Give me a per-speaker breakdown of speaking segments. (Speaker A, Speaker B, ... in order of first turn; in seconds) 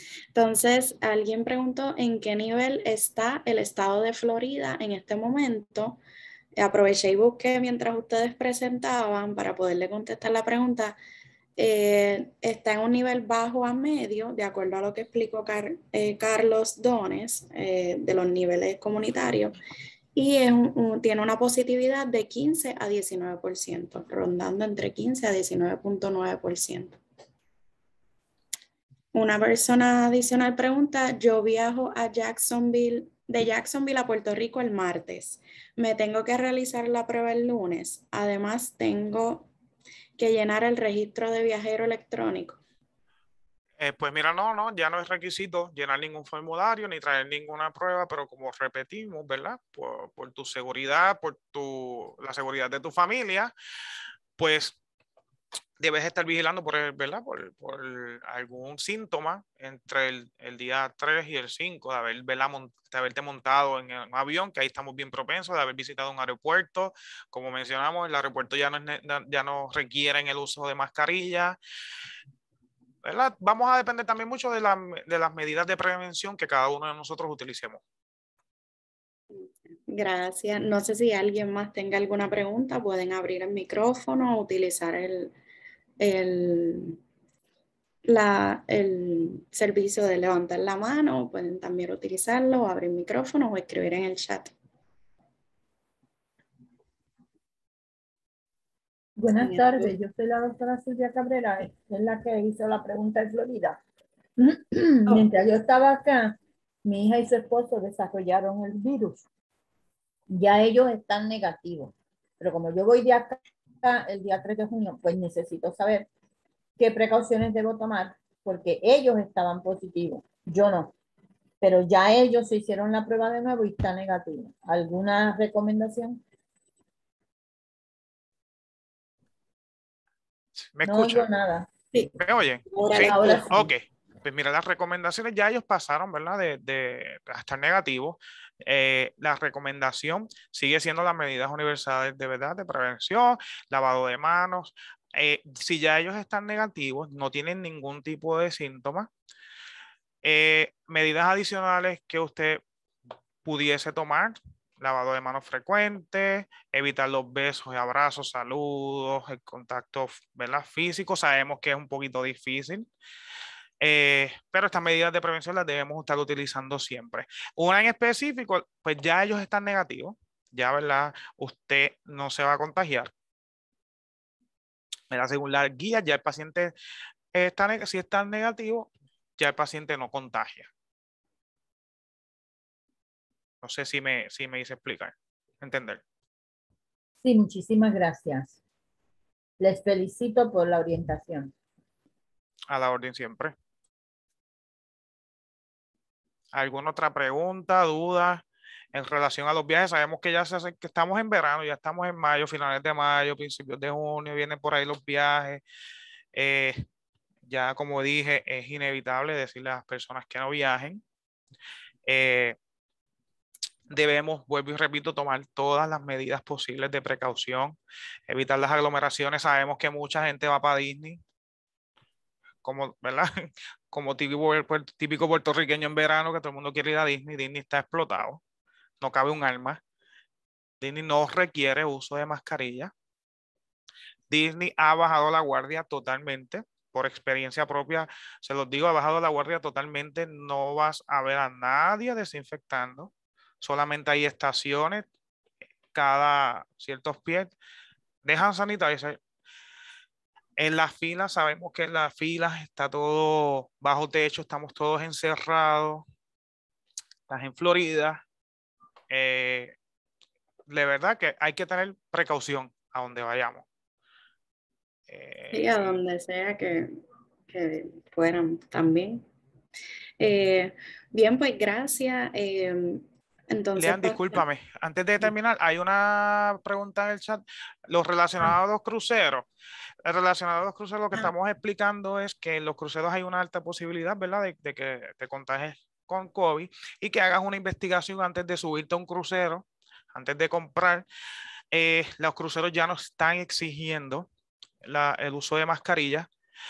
Speaker A: 0.3-6.0, 6.6-11.0, 11.6-19.6, 20.1-27.0, 29.1-39.5, 40.2-42.6, 79.3-85.3, 86.0-87.0, 88.1-94.5, 99.4-99.9, 132.7-133.4, 265.5-269.2, 270.2-274.4
Speaker B: 43.8-53.5, 54.4-54.8, 55.8-71.6, 73.0-77.8, 130.6-131.3, 132.2-149.1, 150.2-152.6, 153.4-162.9, 163.8-173.1, 175.1-176.7, 177.3-180.7, 183.6-186.0, 192.7-193.5, 196.5-205.6, 206.3-206.8, 207.5-211.0, 212.1-212.6, 213.9-217.8, 218.3-221.2, 222.6-228.4, 229.0-229.8, 230.8-232.9, 234.3-245.1, 245.9-247.5, 248.2-249.2, 250.6-256.1, 257.3-258.2, 259.1-259.7, 260.7-263.6, 265.1-266.0, 273.8-279.5, 280.1-291.1, 291.7-294.3, 294.8-296.3
Speaker C: 99.2-103.8, 104.4-109.2, 110.3-116.1, 116.8-120.9, 121.6-126.2, 130.8-132.1, 132.9-133.7, 187.2-188.6, 189.6-191.5